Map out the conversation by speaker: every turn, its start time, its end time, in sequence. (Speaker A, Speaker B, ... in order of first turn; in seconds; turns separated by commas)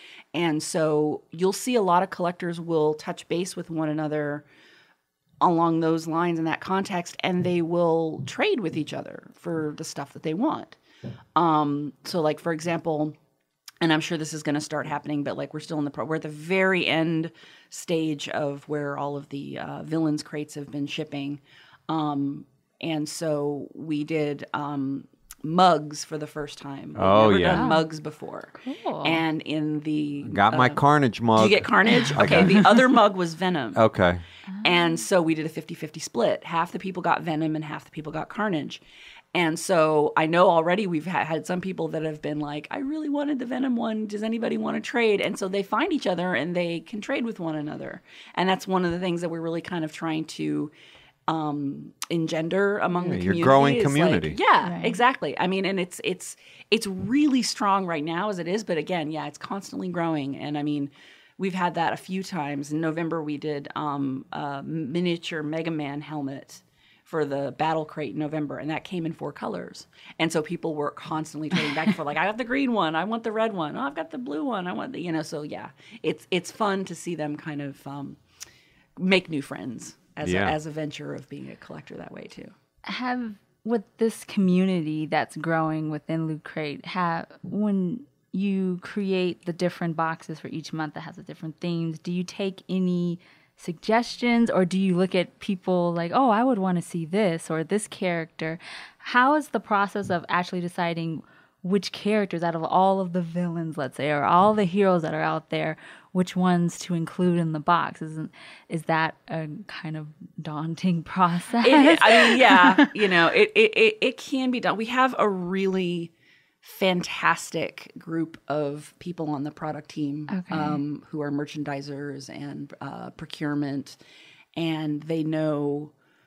Speaker A: 0.3-4.5, Speaker A: 5.4-10.8, Speaker A: 11.3-13.1, Speaker A: 13.8-30.8, Speaker B: 26.9-27.7, Speaker C: 27.5-27.9, Speaker C: 28.6-29.2, Speaker B: 30.2-32.6, Speaker A: 31.3-33.8, Speaker C: 31.9-32.4, Speaker B: 33.7-34.2, Speaker C: 34.5-34.9, Speaker A: 34.6-38.8, Speaker A: 39.3-50.7, Speaker A: 51.3-78.2, Speaker B: 53.0-54.4, Speaker C: 54.6-55.0, Speaker A: 79.0-82.5, Speaker B: 80.2-80.5, Speaker C: 82.8-112.9, Speaker A: 111.6-116.1, Speaker A: 116.6-124.0, Speaker C: 120.3-120.8, Speaker A: 124.5-125.9